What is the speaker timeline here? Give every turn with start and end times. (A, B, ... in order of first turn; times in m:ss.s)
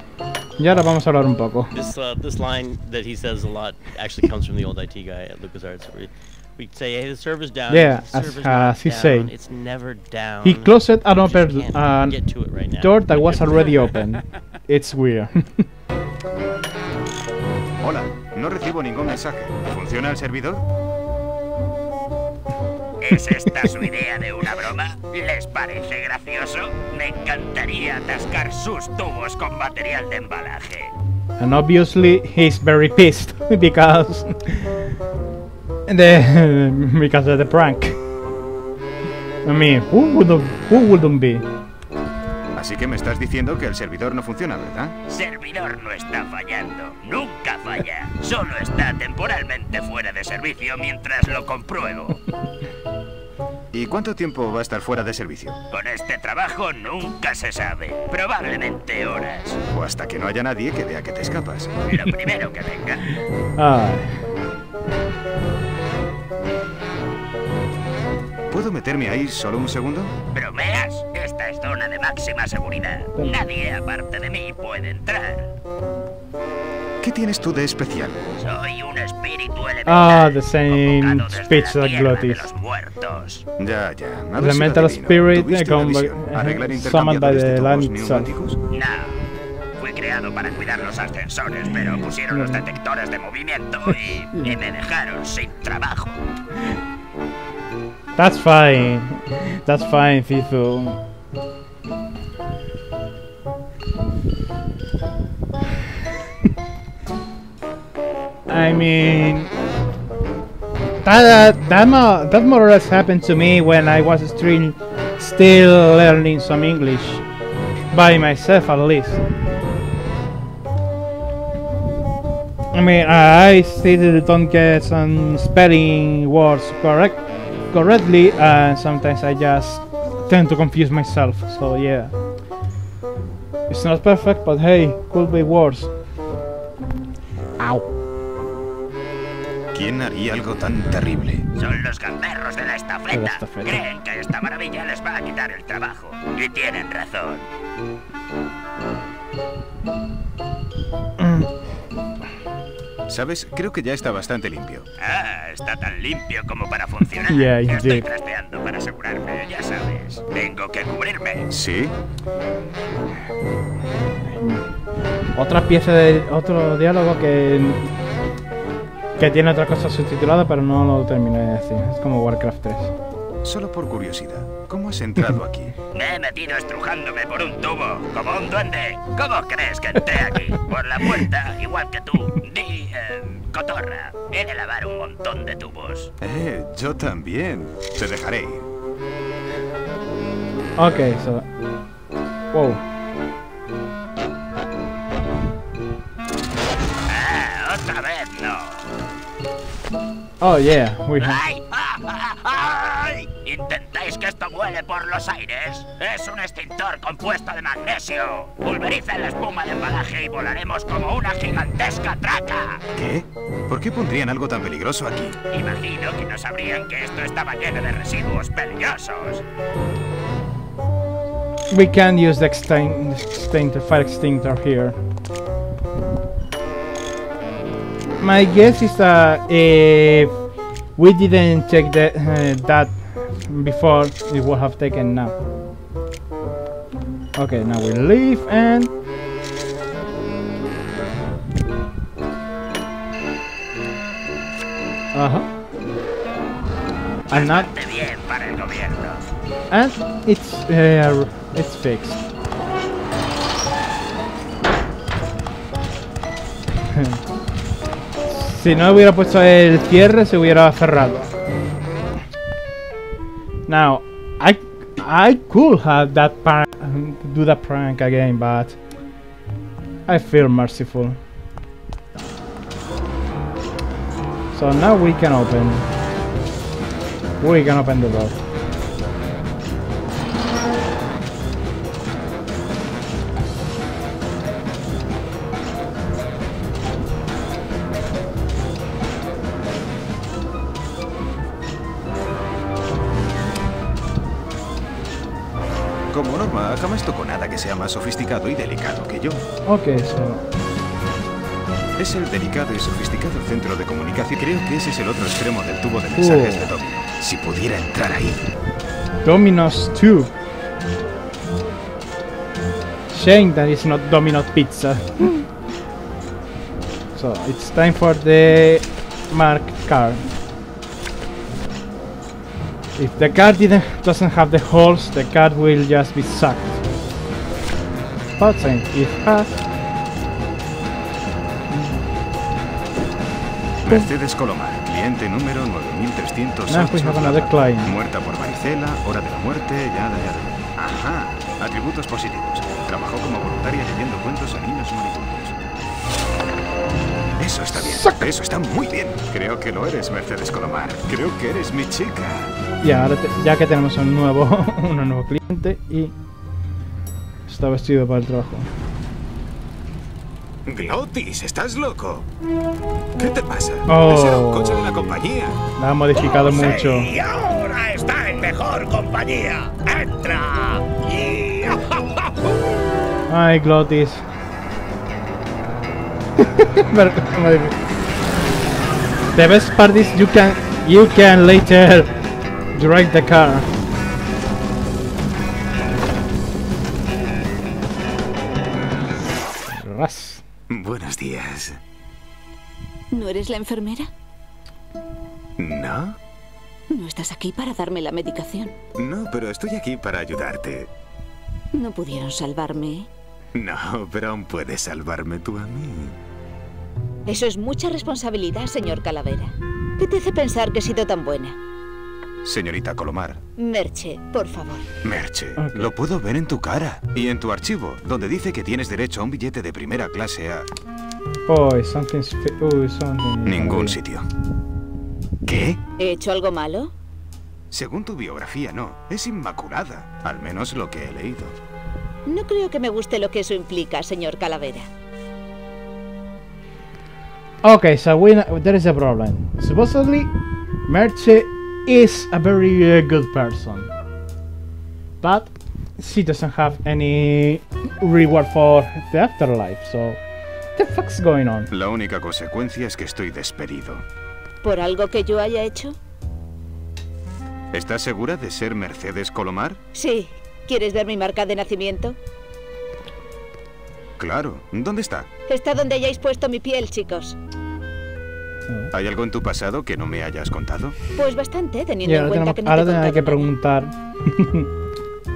0:00.6-0:01.7 A
0:01.7-0:14.1 B
0:07.7-0:09.3 A
0:10.4-0:15.6 A
0:17.8-0:20.6 C
0:23.0-0:30.9 D
0:31.4-0:34.8 A
0:35.9-0:38.0 A
0:39.4-0:41.4 A
0:42.5-0:44.9 C
0:45.1-0:52.2 D
0:53.7-0:55.6 C
0:55.7-0:59.6 D
0:59.7-1:01.7 C
1:01.9-1:03.0 D
1:03.6-1:04.2 A
1:08.5-1:10.1 C
1:10.3-1:15.5 D
1:17.0-1:18.2 C
1:18.4-1:23.4 D
1:19.8-1:22.5 A
1:23.6-1:28.6 C
1:24.4-1:28.3 A
1:28.7-1:29.2 D
1:29.8-1:36.2 D
1:38.2-1:41.0 A
1:48.5-1:49.5 A
1:51.0-1:57.2 A
1:57.9-1:59.2 A
2:02.7-2:12.1 A
2:13.7-2:15.9 A
2:17.6-2:17.8 A
2:19.7-2:21.4 C
2:21.6-2:27.4 D
2:23.1-2:23.8 A
2:31.2-2:31.5 A
2:33.1-2:34.8 C
2:35.0-2:41.5 D
2:37.3-2:38.1 A
2:41.5-2:41.9 C
2:44.2-2:44.6 A
2:45.3-2:47.9 A
2:49.2-2:52.9 A
2:53.4-2:55.7 C
2:55.9-3:06.1 D
3:06.2-3:08.6 C
3:10.8-3:11.4 A
3:12.5-3:12.8 A
3:17.1-3:18.9 D
3:20.4-3:21.4 A
3:21.2-3:32.8 D
3:32.9-3:35.4 C
3:35.5-3:39.4 D
3:41.7-3:45.0 A
3:48.2-3:50.3 A
3:51.0-3:55.3 A
3:57.3-3:58.9 A
4:05.1-4:05.5 A
4:07.3-4:07.7 A
4:07.3-4:09.2 D
4:09.7-4:12.2 A
4:18.2-4:21.3 A
4:23.7-4:28.8 A
4:30.0-4:31.2 A
4:34.5-4:35.9 A
4:37.4-4:38.4 A
4:56.1-4:59.4 C
4:59.6-5:00.4 A
5:02.0-5:08.4 C
5:06.1-5:06.7 A
5:09.2-5:10.3 A
5:13.1-5:15.4 A
5:17.1-5:20.2 A
5:23.0-5:26.8 A
5:28.4-5:29.5 A
5:31.7-5:32.0 A
5:33.8-5:45.6 C
5:36.7-5:37.9 A
5:47.4-5:52.5 C
5:47.7-5:48.2 A
5:52.8-5:56.1 A
5:57.5-5:58.7 A
6:00.6-6:02.3 C
6:03.2-6:05.6 C
6:03.9-6:05.0 A
6:05.8-6:07.1 A
6:06.1-6:12.3 D
6:13.3-6:14.2 A
6:16.4-6:17.8 A
6:19.3-6:22.1 A
6:22.7-6:23.7 A
6:29.7-6:30.4 A
6:30.7-6:31.8 C
6:33.1-6:34.1 E
6:35.6-6:36.2 C
6:36.9-6:38.8 E
6:39.0-6:40.9 C
6:41.7-6:43.1 E
6:43.5-6:46.2 C
6:47.2-6:51.6 E
6:52.4-6:53.4 C
6:53.6-6:54.9 E
6:55.0-7:00.7 C
6:55.6-6:55.9 A
7:01.5-7:04.0 A
7:03.4-7:04.3 C
7:05.4-7:05.8 C
7:06.0-7:06.9 E
7:07.7-7:11.5 C
7:12.2-7:14.9 E
7:17.6-7:20.3 A
7:20.9-7:23.9 A
7:25.2-7:30.2 A
7:30.8-7:31.7 A
7:31.7-7:34.0 C
7:34.6-7:36.0 E
7:37.7-7:39.8 C
7:39.9-7:42.2 E
7:44.2-7:45.3 C
7:45.5-7:47.4 E
7:48.9-7:50.9 C
7:51.2-7:53.5 E
7:52.0-7:54.7 A